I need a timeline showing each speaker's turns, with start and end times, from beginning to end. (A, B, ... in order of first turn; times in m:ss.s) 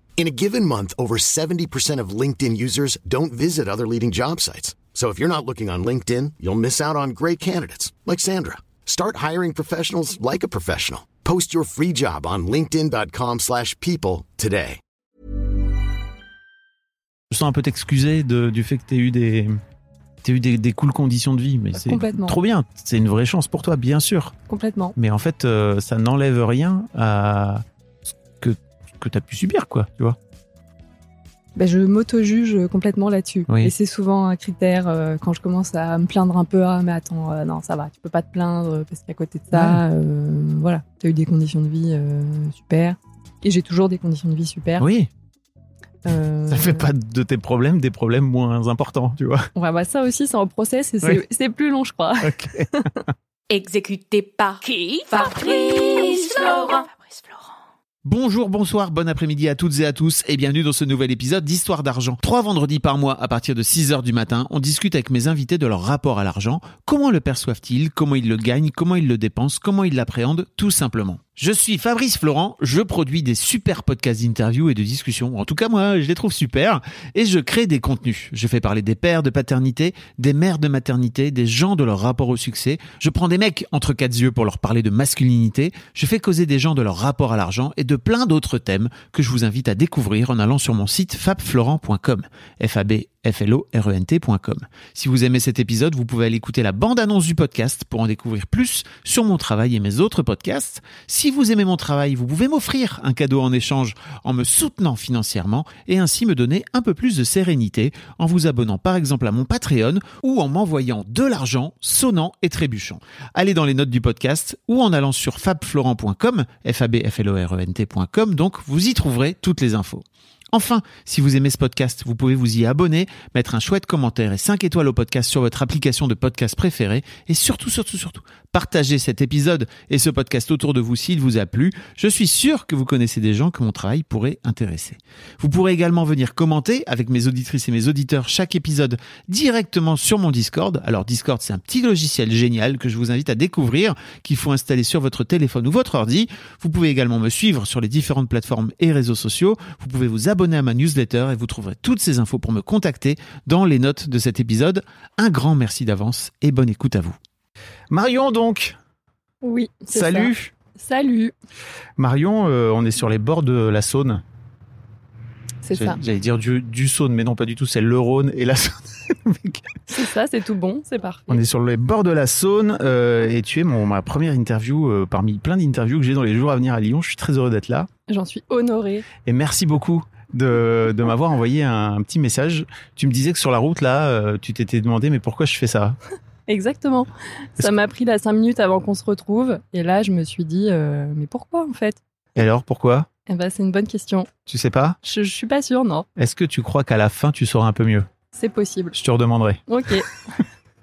0:00.2-0:14.8 A
0:17.3-0:19.6 B
0:20.2-0:24.4 B
0:21.8-0:22.4 C
0:24.5-0:25.0 C
0:25.0-0:27.6 B
0:28.4-0:30.2 B
0:31.6-0:44.9 C
0:33.5-0:33.7 B
0:39.5-0:39.8 B
0:44.8-0:45.1 B
0:46.0-0:46.9 C
0:46.5-0:49.5 B
0:49.6-0:53.0 C
0:52.2-0:52.7 B
0:53.5-0:57.4 D
0:58.0-2:37.2 B
2:37.9-2:38.8 B
2:39.4-2:41.3 C
2:39.9-2:40.5 B
2:42.0-2:44.2 B
2:45.6-2:46.0 C
2:45.7-2:49.7 B
2:49.9-2:51.4 C
2:51.3-2:57.9 B
2:58.1-2:59.1 C
2:59.2-3:06.0 B
3:06.5-3:12.0 C
3:12.4-3:13.1 B
3:13.3-3:14.3 C
3:14.5-3:15.0 B
3:15.0-3:16.1 C
3:16.2-3:18.1 B
3:18.3-3:19.0 C
3:18.9-3:19.6 B
3:19.7-3:20.4 C